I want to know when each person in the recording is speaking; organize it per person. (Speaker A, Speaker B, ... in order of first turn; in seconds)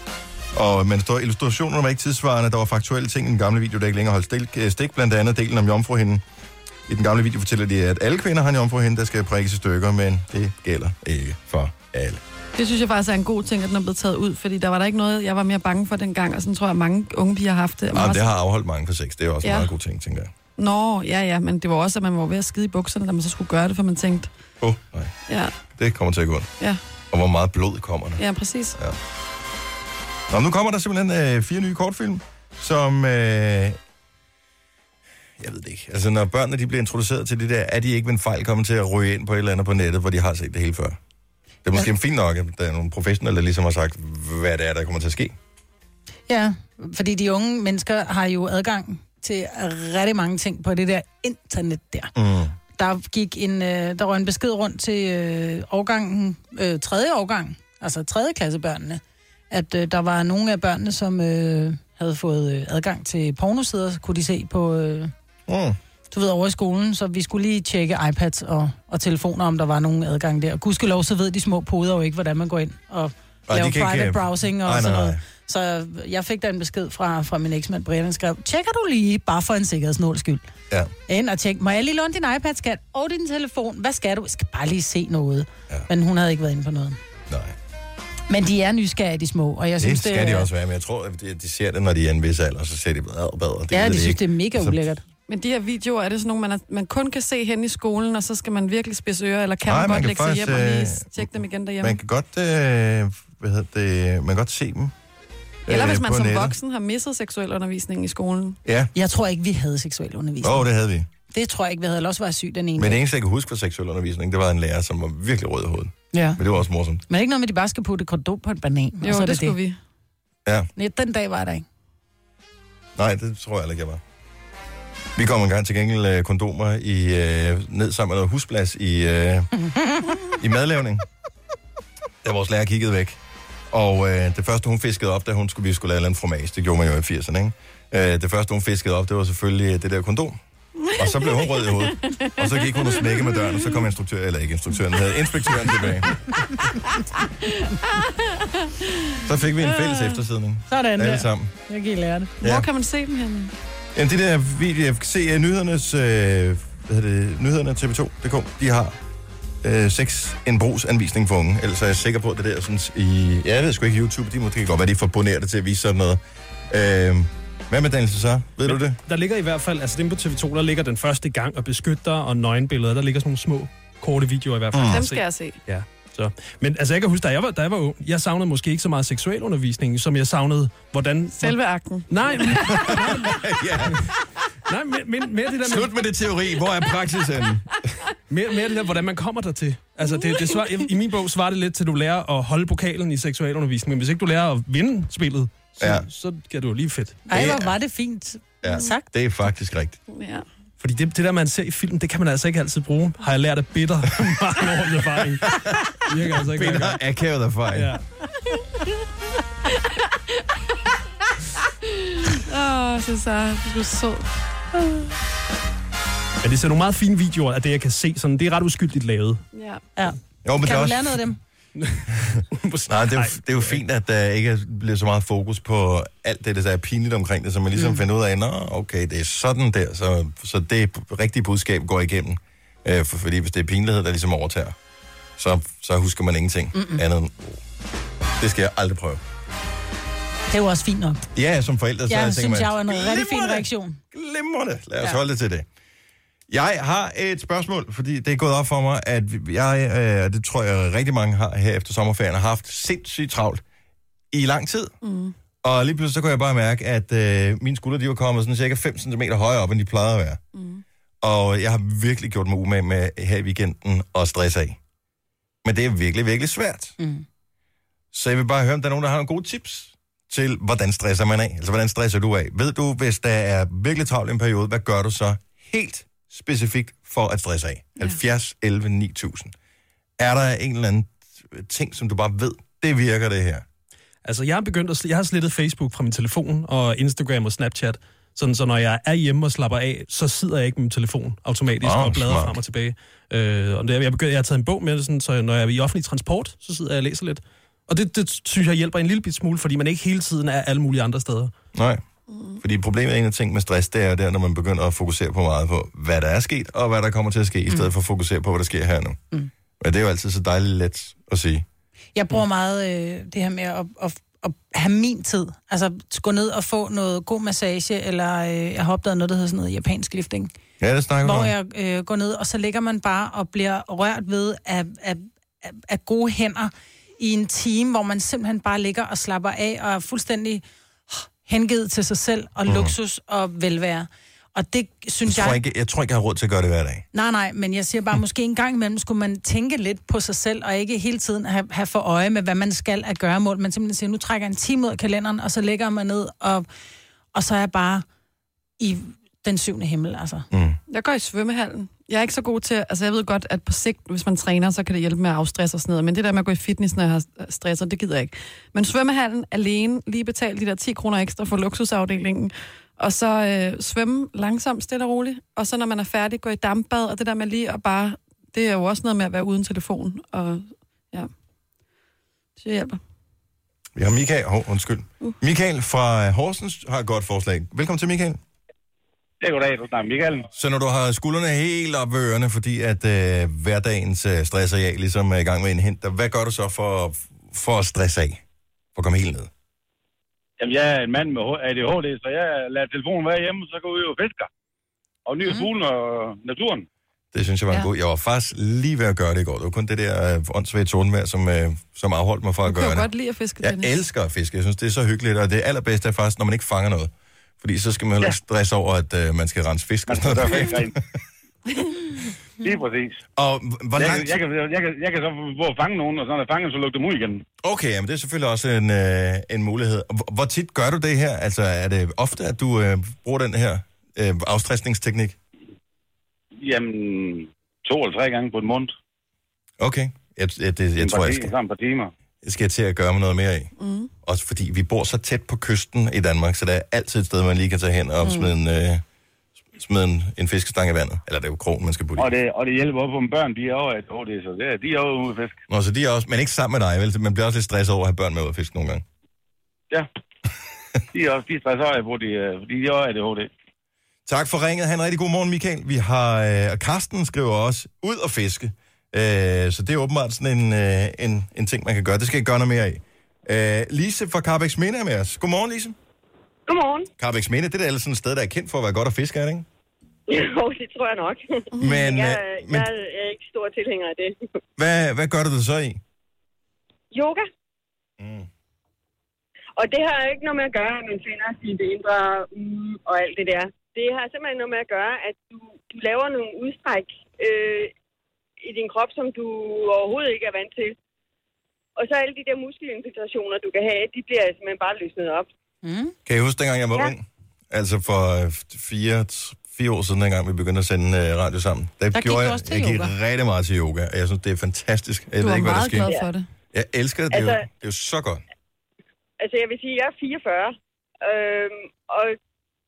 Speaker A: 0.5-6.2, 6.9-12.2, 17.9-20.3, 24.6-25.1, 25.7-26.5, 27.1-28.2, 30.3-33.8, 35.4-41.0, 41.6-45.4, 52.1-52.5, 65.5-65.8, 73.5-75.2, 87.3-87.5, 89.8-94.8, 99.7-104.9, 105.7-106.6, 108.7-108.9, 110.4-111.1, 112.8-117.0, 123.0-124.0, 125.2-129.5, 130.2-131.1, 132.2-133.2, 133.7-140.4, 140.9-146.2, 149.2-151.5, 152.4-152.7, 153.9-159.0, 159.6-169.0, 174.7-175.1, 182.5-184.1, 185.6-187.9, 195.8-196.1, 197.3-197.8, 198.6-200.0, 205.4-208.0, 220.4-221.3, 222.1-234.8, 235.4-237.6, 238.4-239.2, 241.3-245.7, 246.5-253.6, 254.3-254.9, 255.6-260.4, 261.2-264.8, 265.6-267.0, 268.1-279.5, 280.2-283.7, 291.8-292.6, 301.7-302.0, 302.6-309.2, 309.8-311.6, 320.8-321.5, 332.7-332.9, 335.3-337.1, 350.5-350.8, 373.9-378.4, 380.5-388.4, 388.9-389.5, 397.3-403.1, 403.6-411.0, 413.4-414.4, 417.6-425.4, 429.8-431.5, 432.4-433.7, 434.2-439.0, 439.7-442.3, 445.7-449.0, 454.3-466.0, 467.2-469.7, 471.8-472.9, 474.8-476.0, 478.2-478.5, 496.3-506.1, 506.7-508.4
Speaker B: 12.6-18.3, 19.4-19.7, 20.6-24.3, 25.3-25.6, 28.2-28.8, 95.3-102.0, 105.7-108.6, 119.0-119.8, 140.8-143.3, 147.2-150.2, 152.4-153.5, 174.9-175.6, 181.3-183.0, 190.1-190.6, 200.1-200.5, 211.9-214.3, 219.5-219.8, 255.0-255.3, 260.6-260.8, 302.3-302.6, 350.9-371.3, 372.6-373.0, 402.7-403.9, 411.7-412.1, 433.8-434.1, 438.2-438.5, 471.7-472.1, 505.4-506.5
Speaker C: 46.3-52.1, 52.8-65.1, 66.1-80.5, 81.1-87.0, 88.3-90.5, 93.7-95.0, 108.9-110.7, 111.3-113.0, 116.1-116.4, 117.1-119.6, 120.8-121.7, 150.7-152.3, 197.3-199.1, 220.0-221.4, 227.8-228.0, 236.7-237.0, 240.5-241.2, 242.1-244.0, 267.0-267.2, 312.1-320.5, 321.2-335.6, 337.1-346.7, 347.3-348.1, 348.8-350.5, 495.8-496.1, 502.1-503.1
Speaker D: 168.7-184.1, 184.7-185.9, 188.3-197.2, 200.8-207.0, 207.7-208.0, 216.4-219.4, 221.8-223.8, 284.2-301.5
Speaker E: 379.4-380.5, 390.6-394.5, 395.3-396.9, 410.1-410.9, 412.6-413.2, 414.0-417.4, 426.6-428.9, 431.0-432.1, 442.2-445.6, 451.1-453.5
Speaker F: 466.7-467.1, 470.3-474.4, 477.1-477.5, 479.8-487.9, 488.6-490.9, 492.0-495.5, 507.3-507.7, 509.4-512.4